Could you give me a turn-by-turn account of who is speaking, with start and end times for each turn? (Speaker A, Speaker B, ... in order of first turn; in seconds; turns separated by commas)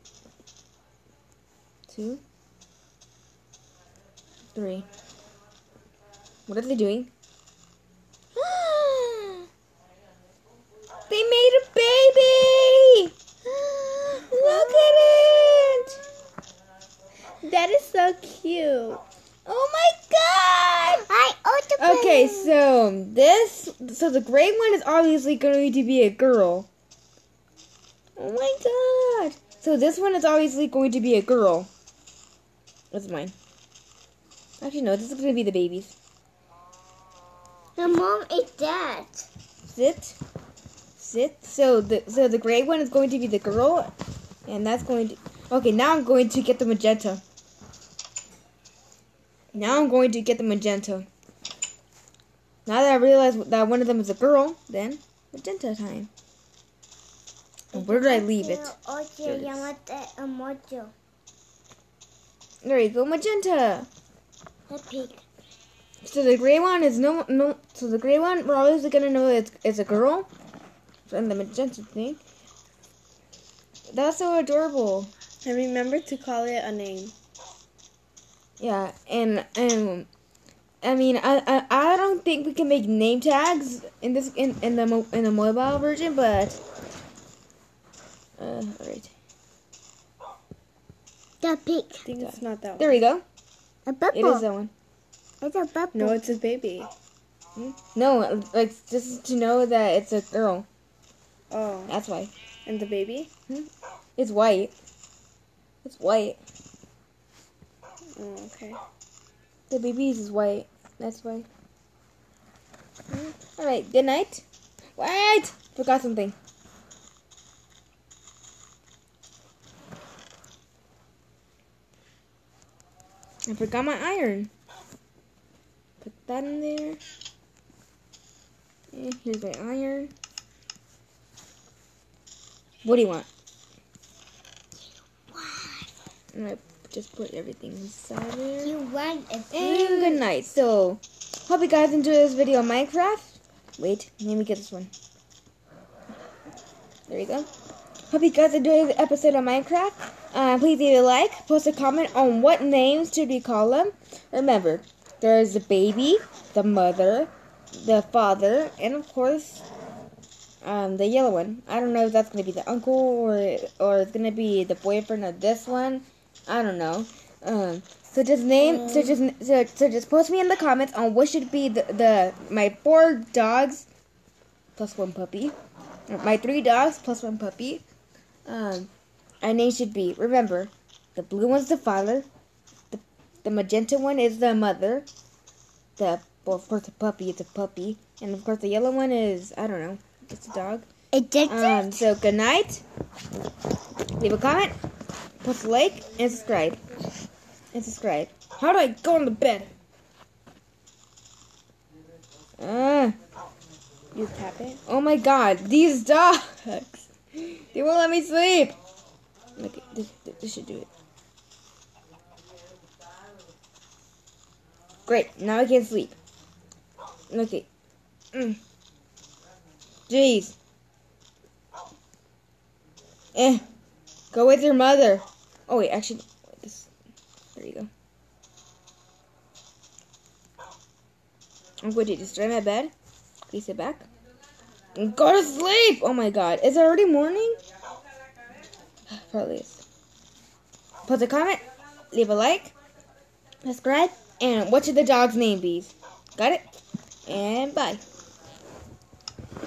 Speaker A: 1.9-2.2, Speaker A: 4.5-4.9, Speaker A: 6.5-7.1, Speaker A: 8.3-9.5, Speaker A: 11.1-13.1, Speaker B: 13.4-15.8, Speaker A: 14.3-16.0, Speaker C: 17.4-19.0, Speaker A: 19.5-21.0, Speaker B: 20.9-22.6, Speaker A: 21.8-26.7, Speaker A: 28.2-31.7, Speaker A: 32.9-33.3, Speaker A: 34.6-36.0, Speaker B: 37.8-39.3, Speaker A: 39.7-40.2, Speaker A: 41.0-43.9, Speaker A: 44.5-47.2, Speaker A: 49.5-51.1, Speaker A: 52.7-56.1, Speaker A: 57.7-58.7, Speaker B: 57.7-60.9, Speaker A: 59.2-59.7, Speaker A: 62.6-63.9, Speaker B: 64.7-65.2, Speaker A: 66.0-70.3, Speaker A: 71.1-72.2, Speaker A: 73.9-75.1, Speaker C: 75.4-77.2, Speaker A: 78.6-80.1, Speaker A: 80.8-86.6, Speaker A: 88.4-89.1, Speaker B: 91.4-92.1, Speaker C: 92.0-93.0, Speaker A: 92.2-93.2, Speaker B: 93.9-94.5, Speaker A: 94.1-94.7, Speaker B: 95.4-96.4, Speaker C: 95.9-96.9, Speaker A: 97.6-100.7, Speaker C: 101.5-101.9, Speaker A: 101.9-102.3, Speaker C: 102.7-103.3, Speaker A: 103.5-104.7, Speaker A: 105.8-106.4, Speaker C: 108.2-108.8, Speaker A: 109.7-111.5, Speaker A: 113.1-114.5, Speaker A: 115.0-116.4, Speaker A: 123.5-124.5, Speaker A: 126.0-127.0, Speaker A: 128.9-130.1, Speaker A: 132.8-133.3, Speaker B: 135.1-135.9, Speaker A: 136.3-138.7, Speaker B: 138.6-140.2, Speaker A: 139.5-144.9, Speaker A: 147.1-147.5, Speaker A: 148.1-159.7, Speaker A: 160.6-173.9, Speaker C: 168.6-169.2, Speaker A: 174.8-175.6, Speaker A: 176.1-177.8, Speaker A: 178.5-178.9, Speaker A: 179.4-182.3, Speaker A: 182.9-185.1, Speaker A: 186.0-190.9, Speaker B: 191.1-192.0, Speaker A: 191.5-192.8, Speaker A: 194.2-194.7, Speaker A: 195.4-196.8, Speaker A: 197.7-199.7, Speaker A: 202.6-203.2, Speaker C: 204.1-204.8, Speaker A: 204.9-208.8, Speaker A: 209.6-210.9, Speaker A: 215.1-216.2, Speaker A: 217.3-217.7, Speaker A: 218.3-218.6, Speaker A: 220.1-220.6, Speaker A: 223.3-223.6, Speaker A: 224.3-226.9, Speaker A: 227.6-227.9, Speaker A: 231.8-232.9, Speaker A: 233.5-234.1, Speaker A: 234.9-237.6, Speaker A: 239.1-239.8, Speaker A: 241.1-242.7, Speaker A: 243.6-246.6, Speaker A: 247.2-248.0